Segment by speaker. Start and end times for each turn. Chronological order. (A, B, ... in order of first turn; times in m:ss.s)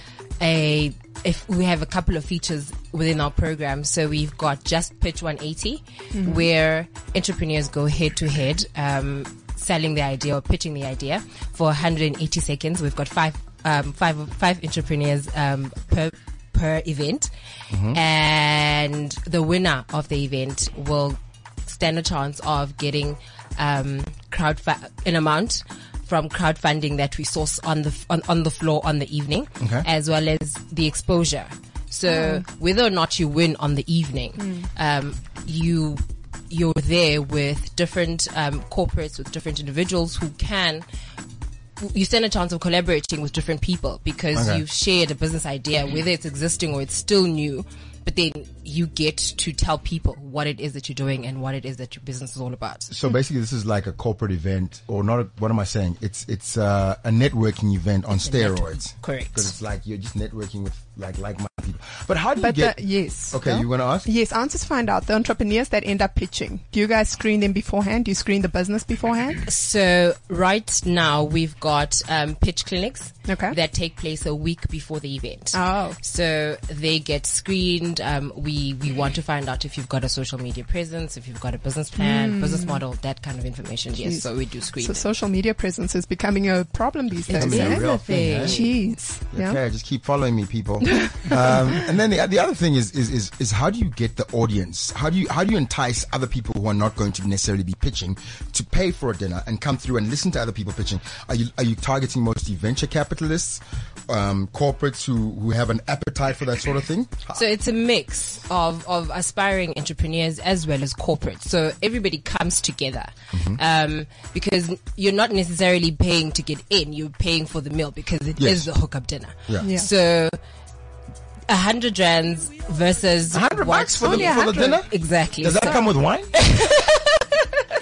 0:00.4-0:17.3 A
0:06.1-0:06.5 B
0:17.7-0:18.0 C
0:17.9-0:40.8 A
0:29.6-0:29.8 C
0:32.1-0:32.4 B
0:34.4-0:34.7 B
0:41.8-0:52.9 A
0:44.3-0:44.6 C
0:52.9-1:04.1 C
0:58.1-0:59.5 A
1:02.4-1:09.4 B
1:09.4-1:25.1 A
1:13.3-1:13.6 B
1:15.5-1:16.0 B
1:22.0-1:22.8 B
1:24.0-1:29.6 B
1:27.3-1:28.6 C
1:27.3-1:28.8 A
1:29.3-1:47.4 C
1:30.9-1:31.8 B
1:47.3-2:00.4 A
1:53.3-1:53.6 C
1:58.4-1:58.7 C
1:59.6-1:59.9 B
2:01.5-2:07.6 A
2:03.3-2:06.3 C
2:04.0-2:04.8 B